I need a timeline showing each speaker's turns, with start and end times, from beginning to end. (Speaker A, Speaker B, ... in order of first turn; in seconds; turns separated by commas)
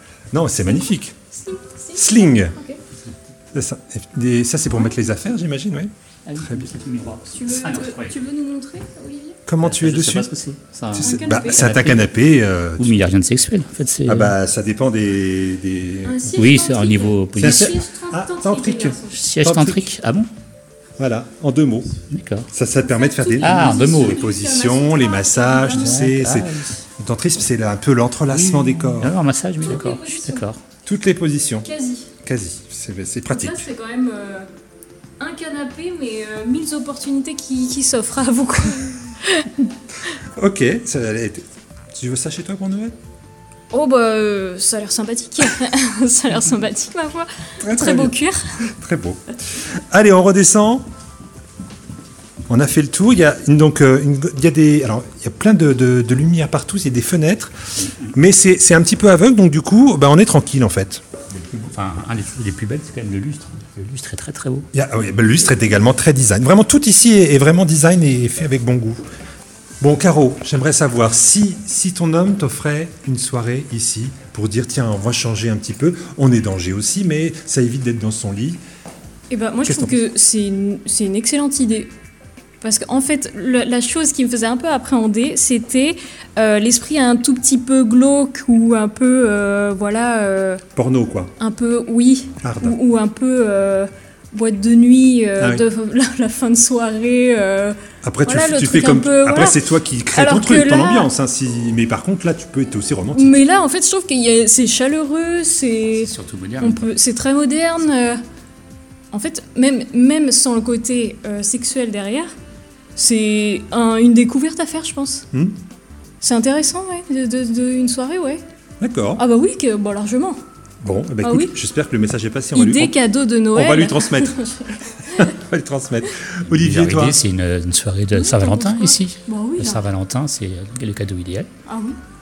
Speaker A: 0.3-1.1, Speaker B: 1.3-2.8, Speaker A: 1.9-2.5, Speaker A: 3.5-6.7, Speaker B: 4.7-5.0, Speaker C: 6.2-8.2, Speaker B: 7.3-9.4, Speaker A: 9.5-10.3, Speaker C: 9.6-12.1, Speaker A: 10.9-13.0, Speaker B: 11.0-11.9, Speaker C: 12.8-14.3, Speaker A: 14.1-16.4, Speaker B: 16.0-19.2, Speaker C: 16.3-17.8, Speaker A: 17.4-19.9, Speaker C: 19.1-20.3, Speaker A: 21.0-21.9, Speaker C: 22.1-22.5, Speaker A: 22.5-29.1, Speaker B: 22.8-26.1, Speaker C: 23.4-24.3, Speaker C: 25.7-26.8, Speaker C: 28.3-30.6, Speaker B: 29.6-30.4, Speaker A: 30.9-31.7, Speaker B: 31.6-32.1, Speaker A: 32.2-33.6, Speaker B: 33.3-34.5, Speaker B: 35.2-39.7, Speaker A: 40.4-42.9, Speaker B: 43.7-48.7, Speaker A: 47.6-48.2, Speaker A: 48.8-49.2, Speaker A: 49.9-50.8, Speaker A: 52.5-57.5, Speaker C: 57.8-58.1, Speaker A: 58.1-61.0, Speaker C: 61.3-64.7, Speaker A: 64.7-69.0, Speaker A: 69.8-78.6, Speaker B: 79.3-81.9, Speaker A: 79.6-80.0, Speaker B: 82.6-90.6, Speaker A: 90.7-91.3, Speaker B: 91.4-101.1, Speaker A: 92.4-92.8, Speaker A: 95.4-95.6, Speaker A: 98.0-103.4, Speaker B: 103.1-108.2, Speaker C: 105.9-106.9, Speaker B: 109.1-112.3, Speaker B: 113.0-115.2, Speaker A: 115.3-115.6, Speaker B: 116.2-118.4, Speaker A: 118.8-119.2, Speaker B: 119.2-120.4, Speaker A: 120.8-123.0, Speaker B: 121.2-121.5, Speaker B: 122.5-124.7, Speaker A: 123.5-124.4, Speaker A: 125.1-127.2, Speaker C: 126.4-131.5, Speaker B: 128.1-129.8, Speaker B: 131.7-132.0